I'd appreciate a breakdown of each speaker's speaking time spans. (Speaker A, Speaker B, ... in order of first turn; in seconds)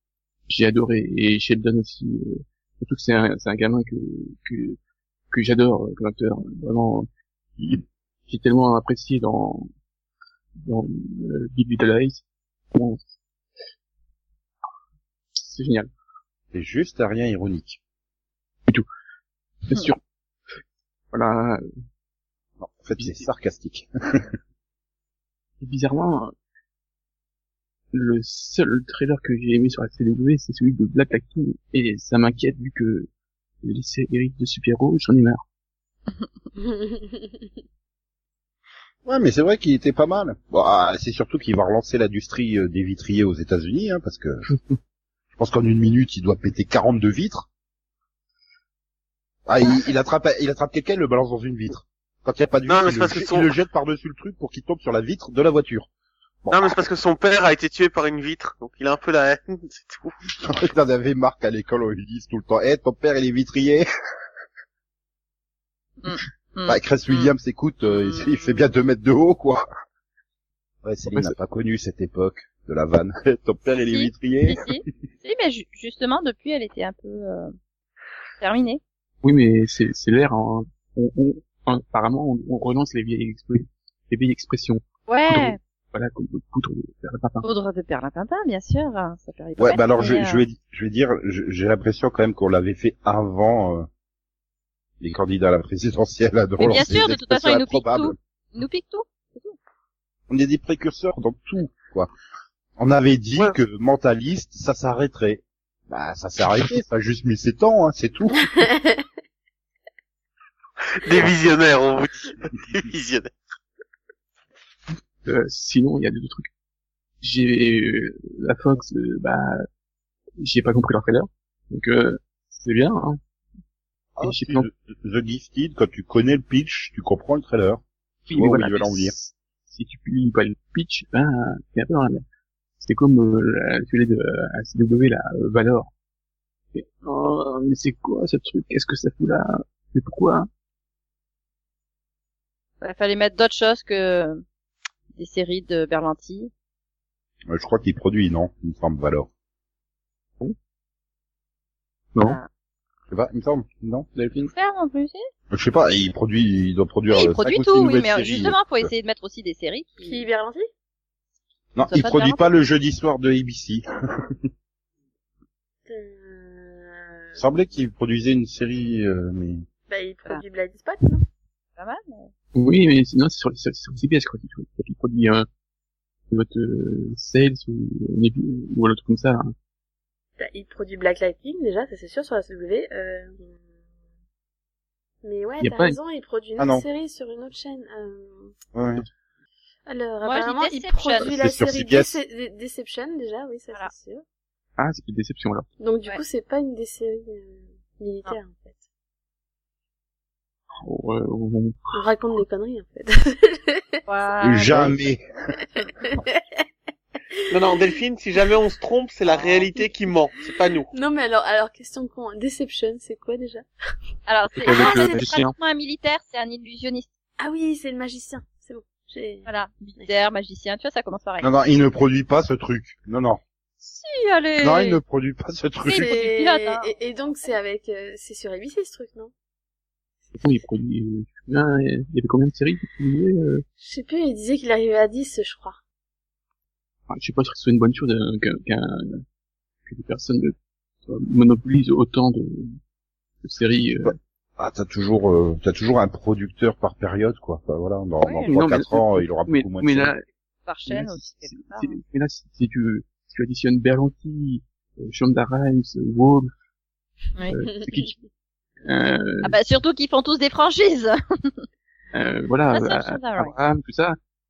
Speaker A: 0.5-4.8, 5.3-9.7, 10.6-12.2, 12.7-13.0, 15.4-15.9, 19.7-20.0, 21.1-21.6, 22.9-23.2, 25.6-26.3, 27.9-33.1, 33.6-35.4, 79.2-87.4, 115.2-116.5, 117.2-119.6, 120.4-123.2, 124.2-124.7, 128.3-132.2, 132.8-135.9, 136.7-140.5, 154.1-154.5, 172.5-175.5, 176.3-179.5, 185.6-186.0, 194.8-195.7, 200.8-201.9, 214.6-215.5, 230.3-233.6, 237.1-239.2, 239.8-240.5, 241.1-242.8, 243.4-244.2, 248.5-250.2, 250.9-256.5, 257.5-258.1, 258.8-259.5, 262.1-264.2
Speaker B: 16.5-17.8, 22.6-24.3, 39.0-44.5, 45.4-47.5, 49.5-55.9, 56.4-56.8, 60.4-63.8, 66.7-69.7, 70.8-74.7, 89.6-93.9, 95.0-98.2, 100.3-102.1, 102.8-108.7, 124.2-127.8, 128.3-129.1, 147.5-149.3, 153.1-154.1, 155.5-158.9, 161.7-164.3, 167.4-169.7, 186.6-186.8, 188.7-189.1, 191.2-192.2, 204.4-205.2, 221.4-223.4, 224.6-226.1, 244.0-250.1
Speaker C: 36.5-37.5, 108.5-109.0, 160.0-160.7, 165.9-167.5, 169.9-171.2, 180.4-183.5, 185.2-188.5, 189.9-194.2, 195.8-198.7, 201.9-204.0, 205.8-206.6, 207.4-207.9, 209.3-209.8, 210.9-213.7, 214.7-215.2, 217.4-219.5, 225.9-229.3, 233.8-235.8, 257.8-258.1
Speaker D: 52.7-53.5, 56.5-60.2, 111.0-113.3, 207.5-210.9
Speaker E: 66.0-67.3, 67.9-68.6, 73.8-77.5, 78.4-78.8, 85.1-85.6, 87.4-90.5, 96.6-99.5, 142.8-144.4, 145.2-146.5, 154.5-155.2, 157.1-160.2, 161.8-162.4, 171.8-172.3, 190.2-191.3, 204.1-204.9, 214.3-217.1, 219.4-221.5, 223.8-225.0, 225.8-226.9, 248.2-248.6, 250.7-252.0, 259.4-261.6, 262.7-263.5